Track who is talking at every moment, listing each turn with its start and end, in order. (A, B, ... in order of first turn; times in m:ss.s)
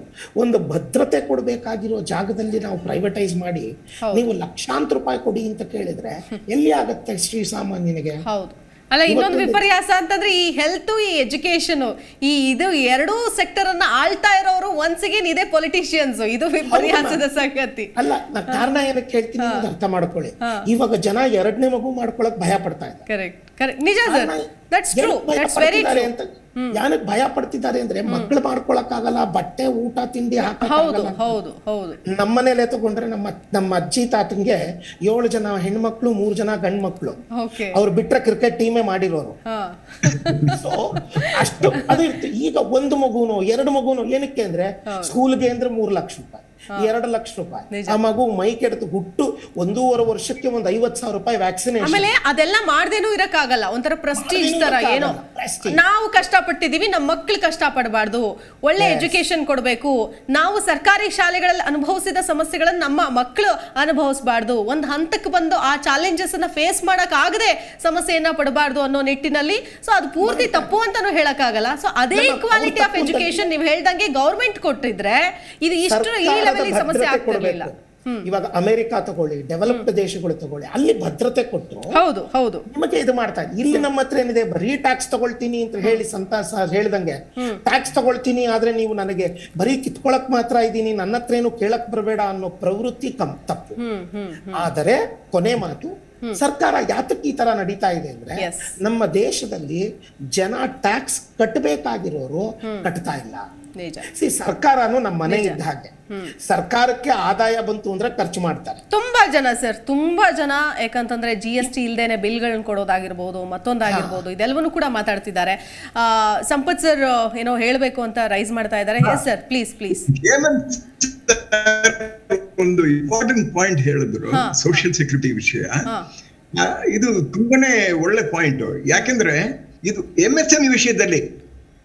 0:00.4-0:08.2 A
0:08.2-0:17.9 B
0:09.1-0:09.6 A
0:16.7-0:17.3 A
0:18.0-0:23.0 A
0:19.4-0:19.7 B
0:20.4-0:20.7 B
0:23.1-0:26.8 B
0:24.0-0:31.4 A
0:30.4-0:32.0 B
0:32.1-0:37.2 A
0:37.3-0:37.8 B
0:37.7-0:39.4 A
0:39.5-0:40.5 B
0:40.5-0:52.1 A
0:41.2-0:42.0 B
0:44.9-0:45.1 B
0:47.7-0:48.0 B
0:51.8-1:18.3 B
0:54.2-0:55.8 A
0:58.8-0:59.1 A
1:10.2-1:10.7 A
1:12.1-1:13.5 A
1:15.9-1:21.9 A
1:21.9-1:22.6 B
1:22.7-1:33.8 A
1:33.8-1:34.7 B
1:34.5-1:43.4 A
1:38.4-1:38.7 B
1:42.6-1:42.9 B
1:43.8-1:44.1 B
1:44.1-1:48.8 A
1:45.3-1:45.6 B
1:46.1-1:46.3 B
1:48.9-2:00.1 B
1:53.8-1:54.2 A
2:00.1-2:05.9 C
2:04.3-2:04.8 B
2:06.5-2:11.2 C